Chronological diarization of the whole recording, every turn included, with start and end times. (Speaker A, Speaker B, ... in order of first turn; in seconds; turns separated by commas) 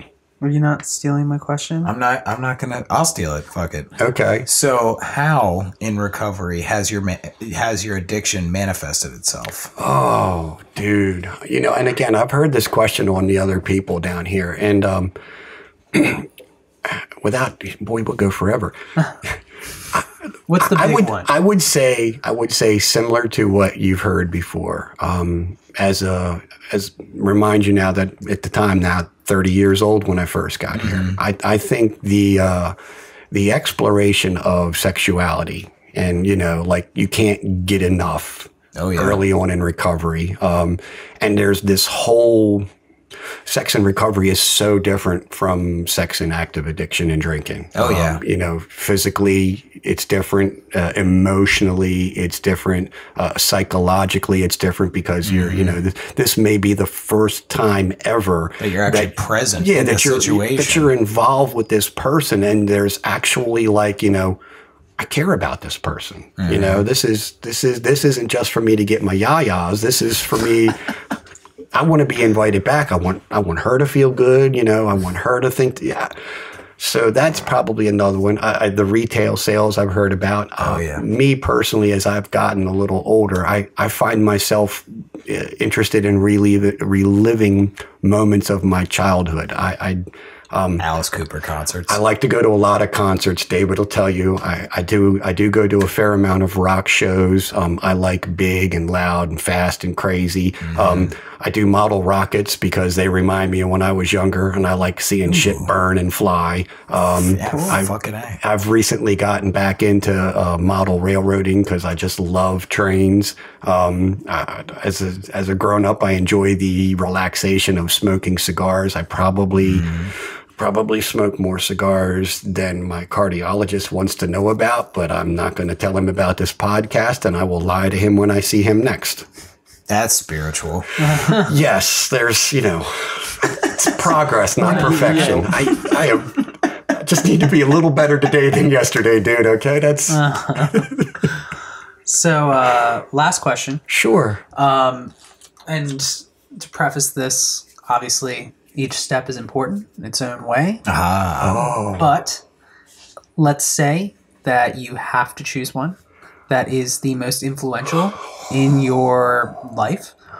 Speaker A: 0.4-1.9, Speaker B: 1.8-9.7, Speaker C: 4.0-4.5, Speaker C: 9.8-15.1, Speaker C: 15.9-16.3, Speaker C: 16.9-18.8, Speaker C: 19.9-32.8, Speaker A: 20.5-21.3, Speaker B: 30.7-31.2, Speaker C: 33.3-42.7, Speaker B: 38.8-39.2, Speaker C: 43.5-64.4, Speaker B: 47.8-48.2, Speaker B: 55.2-55.8, Speaker B: 58.6-60.9, Speaker C: 65.0-70.9, Speaker B: 66.4-66.8, Speaker C: 71.7-90.8, Speaker B: 80.6-81.0, Speaker B: 90.8-92.0, Speaker C: 91.9-129.3, Speaker B: 100.6-101.1, Speaker B: 105.3-105.7, Speaker B: 107.1-108.4, Speaker A: 107.5-107.8, Speaker B: 119.6-120.1, Speaker B: 129.9-131.3, Speaker A: 131.0-131.5, Speaker C: 131.2-141.3, Speaker A: 134.6-135.5, Speaker B: 134.7-135.7, Speaker A: 140.1-140.9, Speaker A: 142.1-143.8, Speaker C: 143.9-144.4, Speaker A: 144.5-145.1, Speaker A: 145.7-150.8, Speaker B: 150.9-151.8, Speaker C: 151.4-152.1, Speaker A: 152.0-152.4, Speaker A: 153.4-156.0, Speaker A: 156.5-160.2